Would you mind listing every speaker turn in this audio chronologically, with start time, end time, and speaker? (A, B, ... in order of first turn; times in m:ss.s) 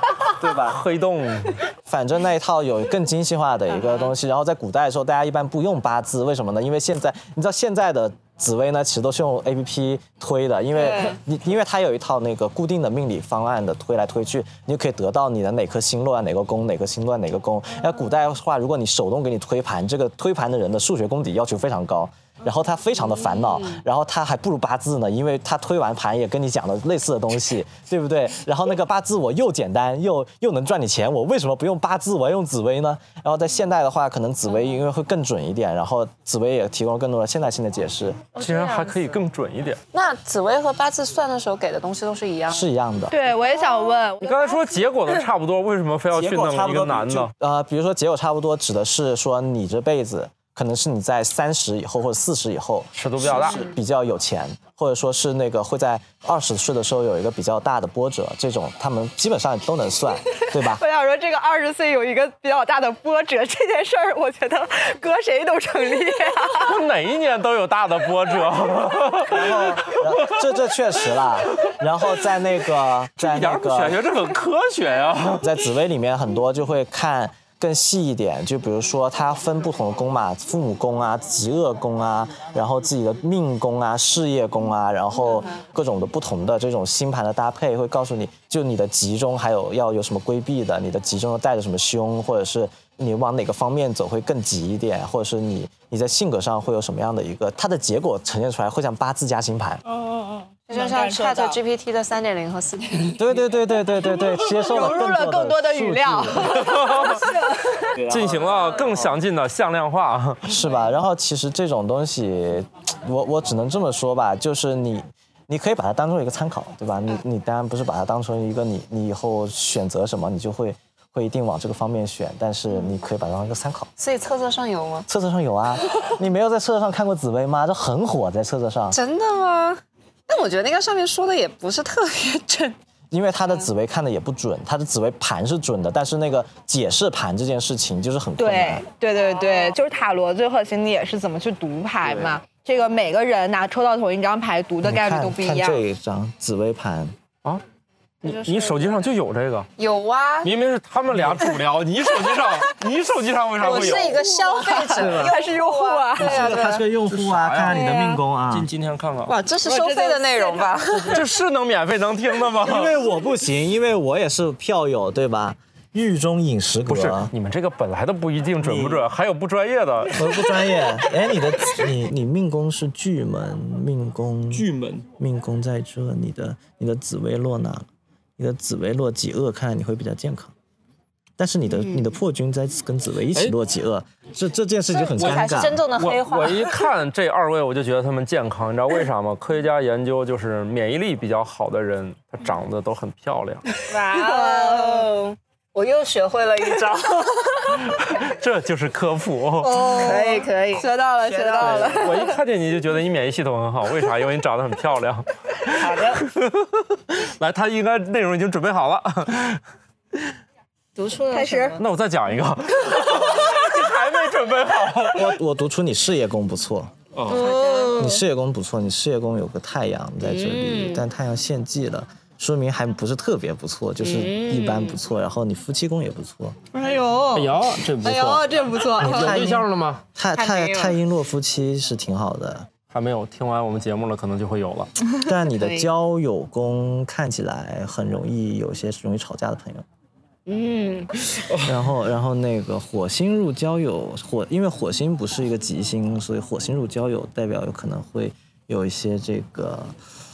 0:00.3-0:00.8 A
0:00.4-0:01.6 B
0:01.8-0:38.2 A
0:10.7-0:11.2 C
0:38.3-0:39.2 C
0:38.4-0:39.8 B
0:39.9-0:42.6 C
0:42.5-0:43.2 A
0:43.1-0:44.8 D
0:44.2-0:47.3 B
0:46.1-1:00.8 A
0:52.9-0:53.7 B
1:00.5-1:06.8 D
1:06.6-1:10.1 B
1:09.3-1:14.0 A
1:13.2-1:15.5 B
1:15.4-1:39.8 A
1:39.9-1:41.6 D
1:40.7-1:43.4 C
1:43.2-1:46.6 A
1:44.0-1:47.9 D
1:46.4-1:47.2 B
1:48.0-1:50.5 B
1:50.4-2:03.9 A
2:04.0-2:05.1 C
2:05.1-2:09.0 A
2:08.9-2:12.8 C
2:13.1-2:18.8 A
2:18.4-2:25.8 D
2:24.8-2:27.1 A
2:28.2-2:29.7 B
2:28.2-2:28.9 C
2:29.8-2:30.5 C
2:30.4-2:34.2 B
2:33.6-2:36.8 C
2:34.0-2:36.4 D
2:35.0-2:35.3 A
2:36.2-2:38.7 A
2:37.1-2:37.8 B
2:37.7-2:38.1 C
2:38.5-2:39.4 B
2:39.2-2:41.2 C
2:39.6-2:40.8 D
2:40.9-2:42.9 B
2:42.6-2:47.3 A
2:46.9-2:50.6 B
2:48.6-2:49.1 A
2:50.1-2:57.8 A
2:54.5-2:55.0 B
2:58.4-3:00.5 A
3:01.4-3:05.8 A
3:05.0-3:06.8 C
3:05.2-3:13.6 B
3:13.8-3:17.9 C
3:14.1-3:15.1 D
3:17.9-3:20.0 B
3:19.6-3:22.4 D
3:19.8-3:22.3 C
3:21.6-3:29.6 B
3:25.7-3:26.2 C
3:31.0-3:31.9 C
3:31.3-3:31.8 D
3:31.8-3:35.3 B
3:35.1-3:36.9 A
3:37.1-3:37.5 B
3:37.3-3:38.2 C
3:37.3-3:38.1 D
3:38.0-3:46.6 A
3:40.2-3:41.0 C
3:44.0-3:45.0 C
3:46.7-3:49.5 D
3:47.3-3:50.0 B
3:49.0-3:52.7 A
3:50.3-3:51.0 C
3:52.9-3:54.9 B
3:55.2-3:59.8 A
3:55.6-3:55.9 C
4:00.4-4:01.2 C
4:01.4-4:01.7 B
4:01.6-4:09.9 A